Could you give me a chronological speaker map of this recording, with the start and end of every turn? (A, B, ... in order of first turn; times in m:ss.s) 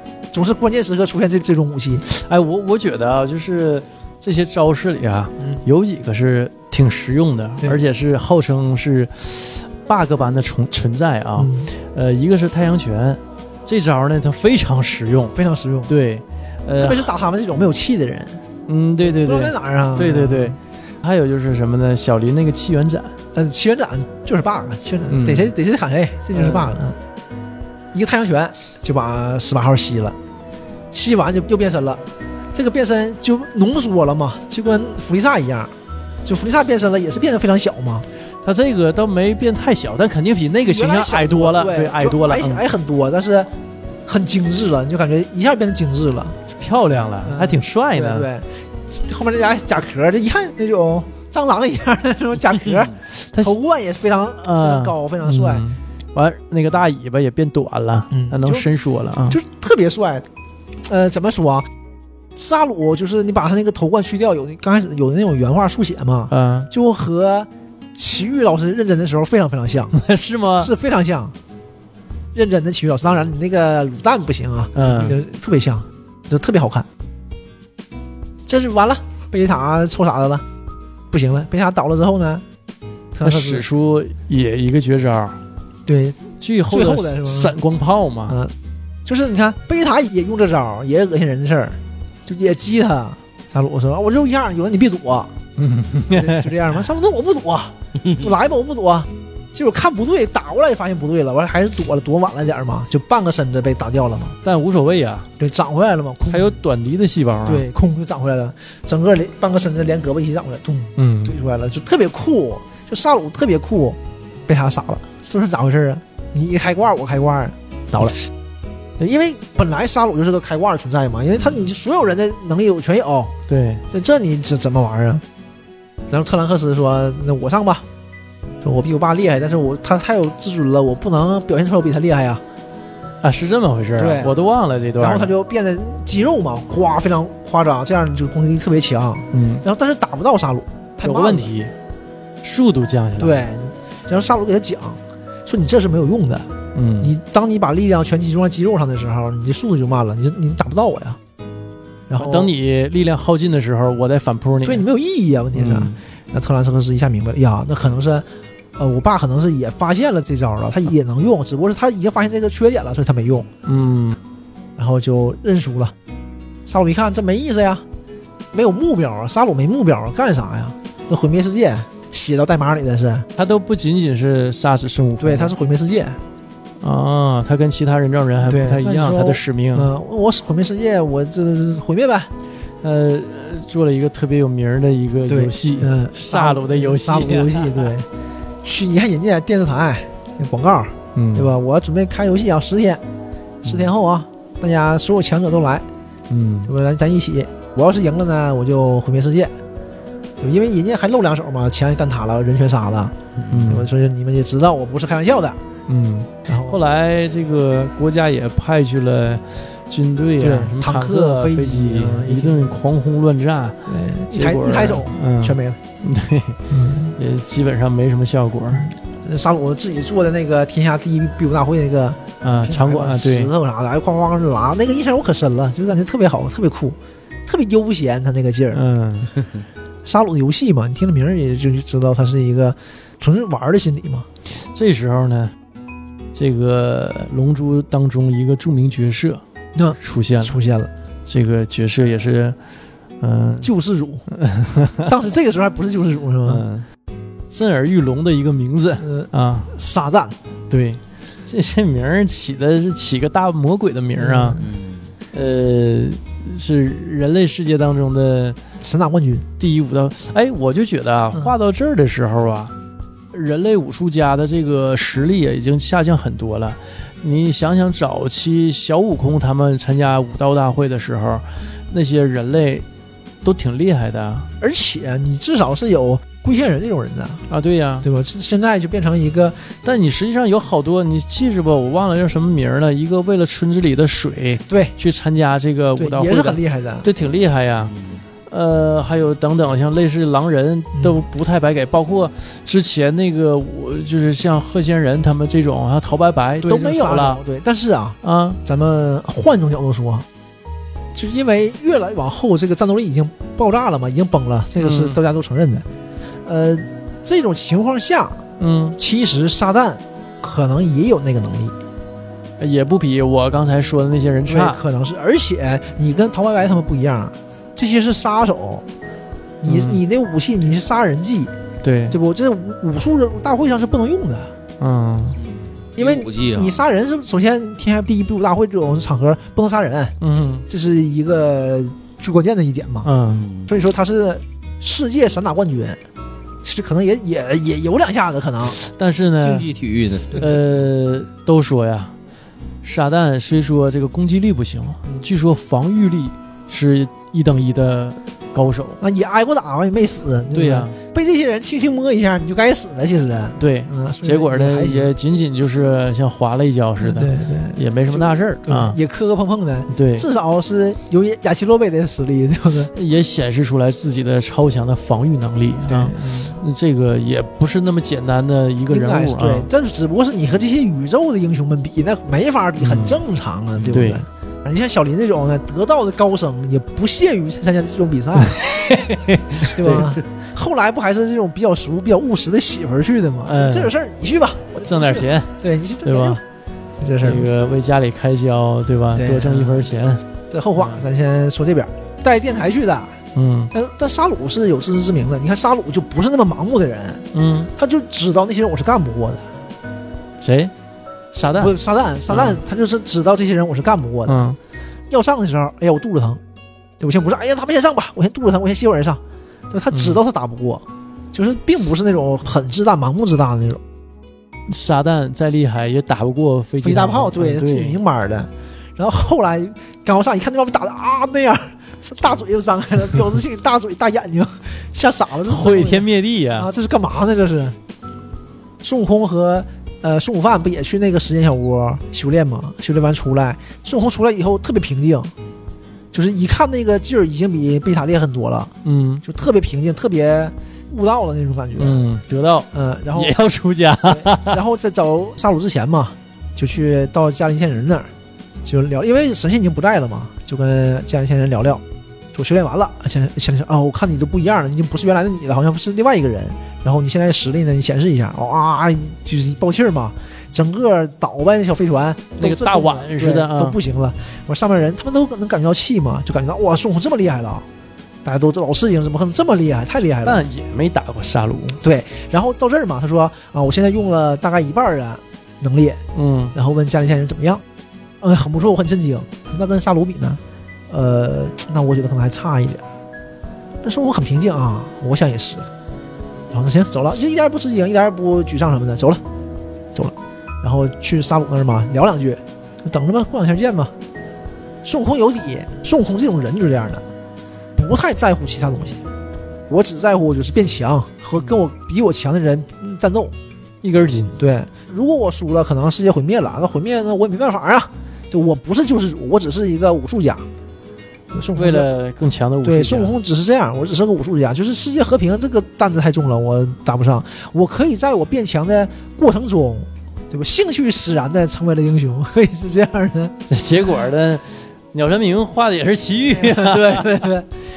0:00.3-0:02.0 A
0:02.0-0:15.4 B
0:11.4-0:11.7 A
0:15.3-0:15.9 A
0:15.9-0:17.1 B
0:16.8-0:18.4 A
0:18.7-0:23.2 B
0:19.0-0:20.6 A
0:23.3-0:27.0 A
0:25.1-0:25.5 B
0:26.3-0:26.7 B
0:27.9-0:30.2 A
0:30.9-0:32.0 A
0:32.5-0:35.7 A
0:36.2-0:38.1 A
0:38.4-0:42.7 B
0:40.6-0:43.5 A
0:44.1-0:46.4 A
0:46.6-0:48.3 B
0:47.2-0:55.6 A
0:53.1-0:53.6 B
0:54.4-0:59.4 B
0:58.1-0:58.7 A
0:59.2-1:00.3 A
1:00.8-1:01.7 A
1:02.4-1:09.9 A
1:06.3-1:06.7 B
1:09.9-1:10.7 B
1:10.6-1:11.4 A
1:12.3-1:16.9 A
1:14.8-1:15.2 B
1:18.5-1:20.4 A
1:21.1-1:22.4 A
1:23.1-1:23.6 A
1:23.2-1:25.4 B
1:25.9-1:27.6 A
1:26.4-1:28.4 B
1:28.3-1:35.3 A
1:35.6-1:36.5 B
1:36.1-1:44.4 A
1:44.4-1:45.3 B
1:45.4-1:46.5 A
1:46.3-1:47.7 B
1:47.5-1:58.2 A
1:51.0-1:51.4 B
1:59.0-2:03.3 A
2:03.5-2:03.8 B
2:03.9-2:05.2 A
2:06.1-2:07.8 A
2:08.6-2:12.4 A
2:13.2-2:15.3 B
2:14.0-2:14.4 A
2:15.0-2:21.5 A
2:19.3-2:19.6 B
2:21.0-2:21.7 B
2:22.4-2:23.4 B
2:23.2-2:31.2 A
2:26.8-2:27.1 B
2:32.1-2:32.5 A
2:32.2-2:34.8 B
2:34.6-2:43.5 A
2:35.5-2:36.0 B
2:43.7-2:44.2 B
2:44.8-2:45.9 A
2:46.7-2:47.8 A
2:48.5-2:53.3 A
2:53.4-2:55.5 B
2:55.2-2:56.2 A
2:56.8-2:59.9 B
2:58.5-3:02.3 A
3:02.8-3:07.9 B
3:05.3-3:08.1 A
3:08.6-3:13.0 A
3:11.2-3:11.5 B
3:13.6-3:15.9 A
3:16.3-3:16.7 B
3:16.7-3:19.5 A
3:20.4-3:25.6 A
3:23.5-3:23.9 B
3:25.9-3:38.9 B
3:26.5-3:26.8 A
3:30.4-3:32.8 A
3:33.9-3:35.8 A
3:36.7-3:37.2 A
3:38.8-3:48.8 A
3:42.4-3:43.5 B
3:48.7-3:49.3 B
3:50.0-3:54.3 A
3:54.7-3:55.5 B
3:56.4-3:59.4 B
3:59.8-4:00.9 A
4:00.0-4:00.6 B
4:01.3-4:02.6 B
4:03.2-4:03.7 B
4:03.6-4:04.2 A
4:04.3-4:05.1 B
4:05.1-4:06.6 A
4:06.5-4:06.9 B
4:07.5-4:09.7 B
4:09.0-4:10.4 A
4:10.7-4:14.6 B
4:14.2-4:14.6 A
4:14.6-4:15.1 C
4:15.3-4:18.6 B
4:18.8-4:19.5 A
4:19.6-4:22.7 B
4:23.3-4:32.8 B
4:33.4-4:34.5 B
4:34.6-4:37.4 A
4:37.5-4:38.1 B
4:38.0-4:39.7 A
4:39.8-4:47.9 B
4:44.7-4:45.0 A
4:46.0-4:47.1 A
4:47.9-4:48.2 C
4:48.5-4:57.4 B
4:56.6-5:00.3 A
4:58.2-4:58.6 B
5:01.2-5:05.8 A
5:04.8-5:05.2 B
5:06.4-5:08.4 A
5:08.6-5:09.0 B
5:09.0-5:11.8 A
5:12.6-5:14.8 B
5:14.5-5:18.8 A
5:19.6-5:21.5 A
5:19.6-5:20.0 B
5:21.8-5:22.2 B
5:22.1-5:24.5 A
5:24.8-5:25.4 B
5:25.4-5:26.8 C
5:26.0-5:30.2 A
5:30.2-5:30.7 B
5:30.7-5:33.1 A
5:33.0-5:33.4 B
5:33.4-5:33.7 C
5:33.7-5:36.0 A
5:36.6-5:38.8 A
5:38.7-5:39.7 B
5:39.4-5:40.4 C
5:40.3-5:42.1 B
5:42.8-5:49.0 B
5:49.0-5:55.1 A
5:50.5-5:51.0 B
5:53.6-5:59.0 B
5:57.0-6:02.9 A
5:59.9-6:00.3 B
6:02.9-6:09.7 B
6:05.9-6:06.6 A
6:08.9-6:18.6 A
6:12.8-6:13.2 B
6:13.8-6:14.2 B
6:18.4-6:20.2 B
6:19.6-6:26.4 A
6:23.5-6:23.9 B
6:24.8-6:26.4 B
6:27.0-6:27.5 A
6:27.2-6:30.2 B
6:29.1-6:29.9 A
6:30.5-6:33.2 A
6:30.8-6:31.0 B
6:33.4-6:33.7 B
6:33.7-6:39.5 A
6:37.3-6:37.7 B
6:40.4-6:40.7 B
6:41.3-6:41.8 B
6:41.6-6:44.4 A
6:42.3-6:42.6 B
6:44.3-6:44.6 B
6:45.1-6:46.4 A
6:47.0-6:53.8 A
6:49.9-6:50.2 B
6:54.7-6:58.0 B
6:56.8-7:07.8 A
7:05.4-7:06.7 B
7:08.8-7:15.3 A
7:16.1-7:18.7 A
7:18.8-7:19.2 B
7:19.2-7:22.0 A
7:21.8-7:24.6 B
7:22.7-7:23.4 A
7:24.0-7:28.1 A
7:28.6-7:47.7 A
7:42.4-7:43.8 B
7:48.2-7:50.5 A
7:50.2-7:51.8 B
7:51.8-7:56.0 A
7:56.2-7:56.6 B
7:56.5-7:57.6 A
7:58.2-8:02.8 A
8:03.8-8:05.7 A
8:06.5-8:09.2 A
8:09.9-8:13.9 A
8:14.8-8:17.0 A
8:17.8-8:19.0 A
8:19.7-8:23.4 A
8:23.8-8:24.4 B
8:24.4-8:30.5 A
8:31.3-8:31.9 A
8:31.5-8:33.2 B
8:32.6-8:43.4 A
8:43.5-8:47.2 B
8:46.3-8:47.5 A